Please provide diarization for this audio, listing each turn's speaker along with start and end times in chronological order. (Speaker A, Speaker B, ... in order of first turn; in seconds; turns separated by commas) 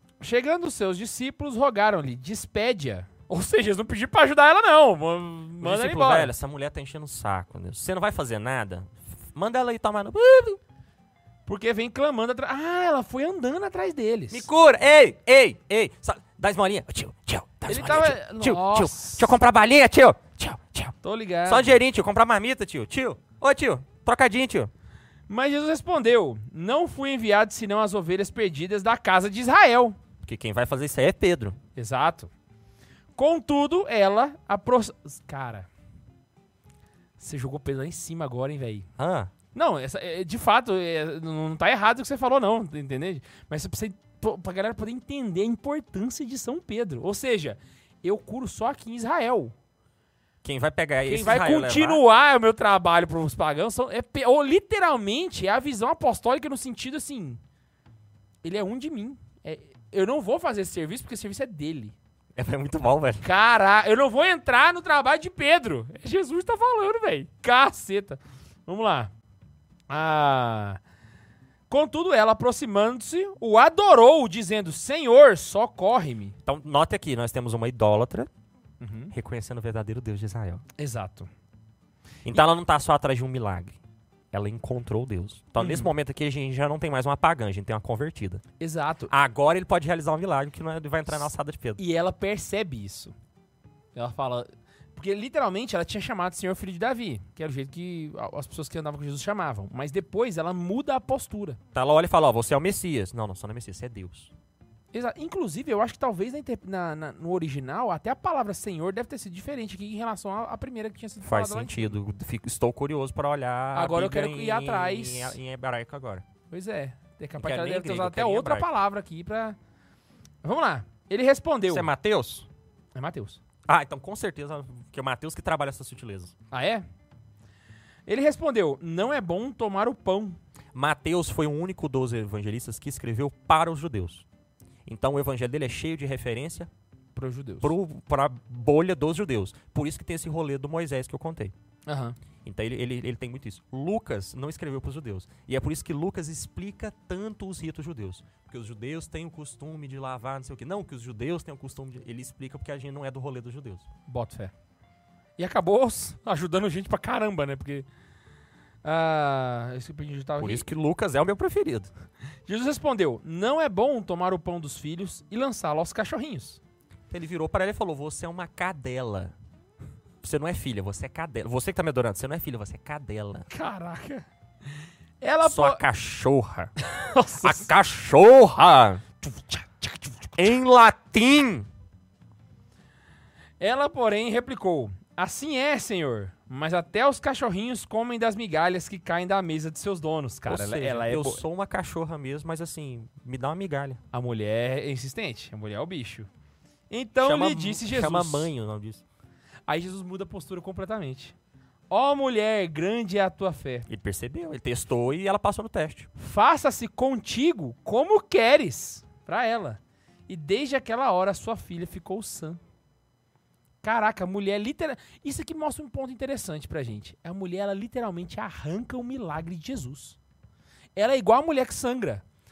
Speaker A: 0.2-6.3, Speaker B: 5.6-10.6, Speaker A: 11.4-14.5, Speaker B: 14.3-24.7, Speaker A: 17.7-19.3, Speaker A: 21.0-21.8, Speaker A: 25.3-30.0, Speaker B: 30.2-31.6, Speaker A: 31.8-32.3, Speaker A: 33.1-35.7, Speaker A: 37.2-38.9, Speaker B: 39.0-39.3, Speaker A: 39.5-49.5, Speaker B: 50.4-52.0, Speaker A: 51.0-57.4, Speaker A: 58.4-62.0, Speaker B: 62.4-63.2, Speaker A: 63.2-69.1, Speaker A: 69.9-70.8, Speaker A: 71.7-76.3, Speaker B: 76.4-78.3, Speaker A: 78.8-79.1, Speaker B: 79.1-80.6, Speaker A: 80.8-81.3, Speaker B: 82.2-83.8, Speaker B: 84.3-88.4, Speaker A: 85.6-85.9, Speaker A: 88.6-89.1, Speaker B: 89.1-91.8, Speaker A: 91.8-93.1, Speaker A: 93.9-101.6, Speaker B: 101.7-104.3, Speaker A: 104.9-112.0, Speaker B: 111.2-116.2, Speaker A: 113.7-115.4, Speaker A: 116.5-119.6, Speaker B: 117.4-118.7, Speaker A: 120.4-121.9, Speaker B: 121.7-122.5, Speaker A: 122.9-123.4, Speaker B: 123.7-126.3, Speaker A: 126.5-126.8, Speaker A: 128.1-130.4, Speaker B: 130.7-134.2, Speaker B: 134.8-136.7, Speaker A: 137.1-137.7, Speaker B: 137.6-141.5, Speaker A: 141.9-142.2, Speaker B: 142.4-153.8, Speaker A: 154.1-154.5, Speaker A: 155.4-157.9, Speaker A: 158.8-160.6, Speaker B: 160.4-161.9, Speaker A: 162.5-166.6, Speaker B: 167.1-169.3, Speaker B: 170.2-173.5, Speaker A: 173.5-174.2, Speaker A: 175.2-175.8, Speaker B: 175.4-176.7, Speaker A: 176.8-177.7, Speaker B: 177.4-179.0, Speaker A: 179.2-180.3, Speaker B: 180.3-181.7, Speaker A: 183.6-191.4, Speaker B: 190.5-194.0, Speaker A: 194.1-196.3, Speaker A: 196.9-198.5, Speaker B: 197.2-199.0, Speaker A: 199.7-201.3, Speaker A: 201.9-203.9, Speaker B: 203.9-206.1, Speaker A: 206.2-212.6, Speaker A: 213.8-220.2, Speaker A: 220.9-222.2